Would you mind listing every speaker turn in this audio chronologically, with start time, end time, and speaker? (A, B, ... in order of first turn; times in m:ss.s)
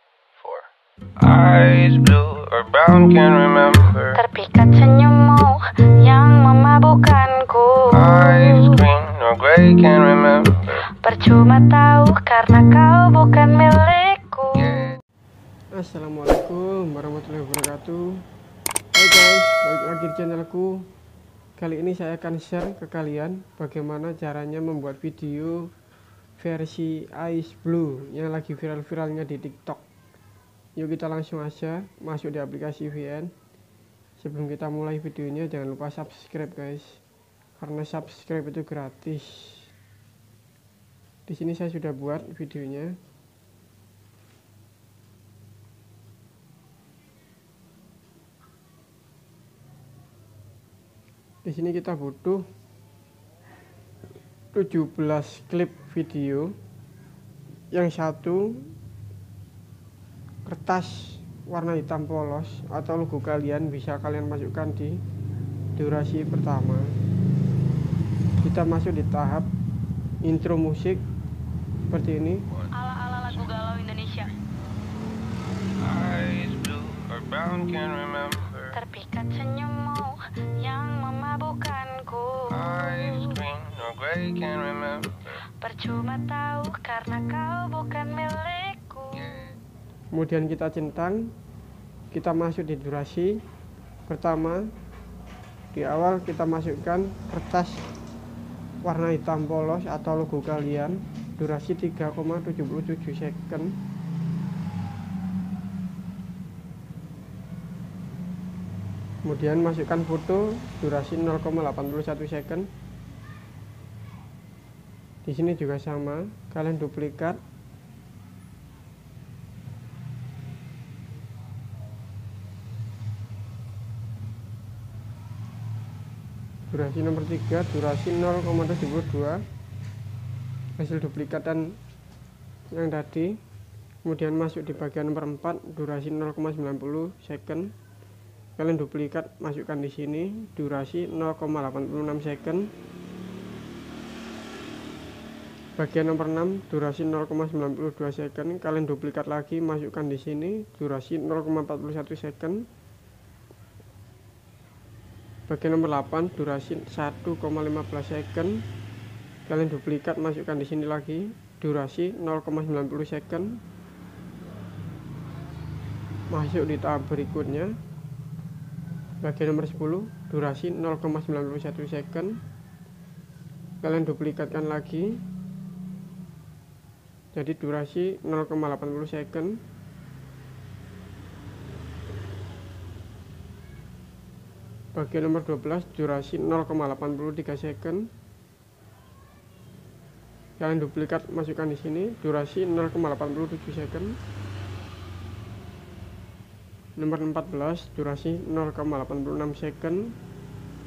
0:00.4-0:04.2 A
0:04.1-0:08.6 B
0:07.9-0:10.9 A
0:10.8-0:14.8 B
0:14.6-0:15.0 A
0:15.7-0:18.2 C
0:18.9-0:20.9 C
0:21.6-0:25.7 C
0:26.4-0:29.8 C
0:30.8-0:33.3 C
0:34.2-0:37.0 C
0:37.6-0:39.7 C
0:41.3-0:42.9 C
0:51.4-0:52.4 C
0:54.5-0:56.5 C
0:57.7-0:58.7 C
1:00.5-1:05.0 C
1:05.8-1:07.0 C
1:08.4-1:09.5 C
1:10.2-1:11.0 C
1:11.9-1:12.4 C
1:12.7-1:14.3 B
1:15.8-1:18.7 A
1:18.7-1:23.4 B
1:22.5-1:25.4 A
1:25.4-1:29.4 B
1:30.1-1:31.3 C
1:32.1-1:33.4 C
1:34.1-1:34.6 C
1:35.7-1:37.8 C
1:38.8-1:43.7 C
1:49.2-1:52.7 C
1:55.2-1:57.4 C
2:06.7-2:09.4 C
2:10.8-2:11.8 C
2:12.7-2:13.4 C
2:14.0-2:17.7 C
2:18.6-2:22.7 C
2:25.8-2:32.6 C
2:35.5-2:38.6 C
2:39.5-2:43.6 C
2:46.3-2:47.7 C
2:49.2-2:52.4 C
2:53.8-2:55.2 C
2:57.3-2:59.6 C
3:04.9-3:08.1 C
3:10.6-3:14.2 C
3:17.0-3:20.1 C